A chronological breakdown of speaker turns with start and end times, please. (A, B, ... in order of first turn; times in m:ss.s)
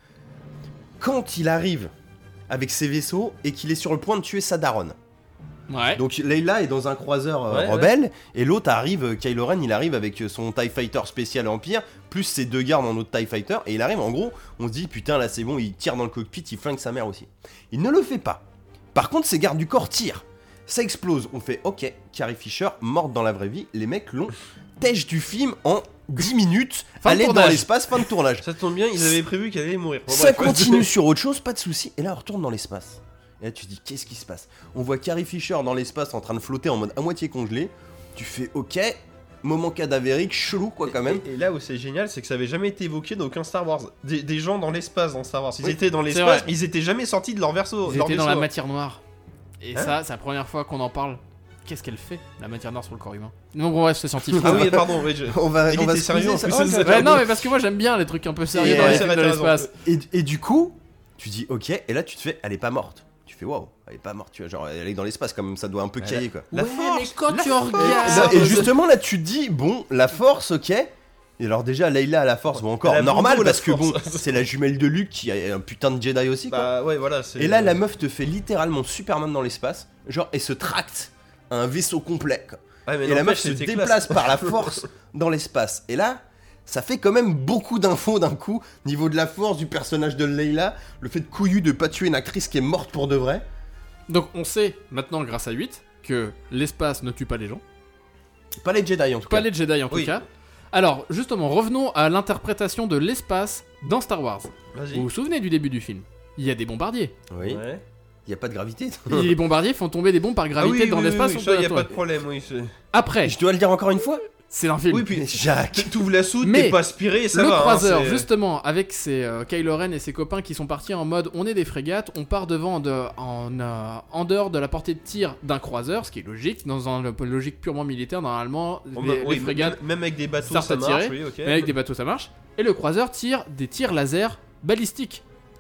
0:01.0-0:01.9 A
0:02.5-0:05.0 A
0:05.7-0:06.0 B
0:05.9-0:28.5 A
0:07.5-0:07.9 C
0:27.0-0:27.7 B
0:28.4-0:30.9 C
0:30.1-0:41.2 A
0:40.9-0:48.5 C
0:46.1-0:46.5 B
0:47.9-0:49.0 B
0:49.6-0:54.8 B
0:54.4-0:57.3 C
0:54.4-0:57.2 A
0:56.8-0:59.7 B
0:58.5-0:59.1 A
0:58.5-0:59.7 C
0:59.8-1:07.1 A
1:06.0-1:08.7 C
1:06.5-1:08.7 B
1:07.7-1:16.7 A
1:12.7-1:14.4 C
1:16.5-1:17.8 C
1:17.4-1:33.4 A
1:22.9-1:24.8 C
1:34.1-1:37.6 B
1:38.6-1:39.5 A
1:39.3-1:47.1 B
1:44.7-1:45.1 C
1:47.3-1:47.6 A
1:47.4-1:47.8 C
1:48.2-1:49.4 A
1:49.1-1:51.9 B
1:50.6-1:52.7 C
1:52.9-1:53.4 B
1:53.2-1:54.2 A
1:54.5-1:55.1 B
1:54.9-1:58.3 C
1:55.1-1:56.0 A
1:56.4-1:56.8 B
1:57.3-2:09.8 B
2:09.0-2:11.7 C
2:10.4-2:15.2 B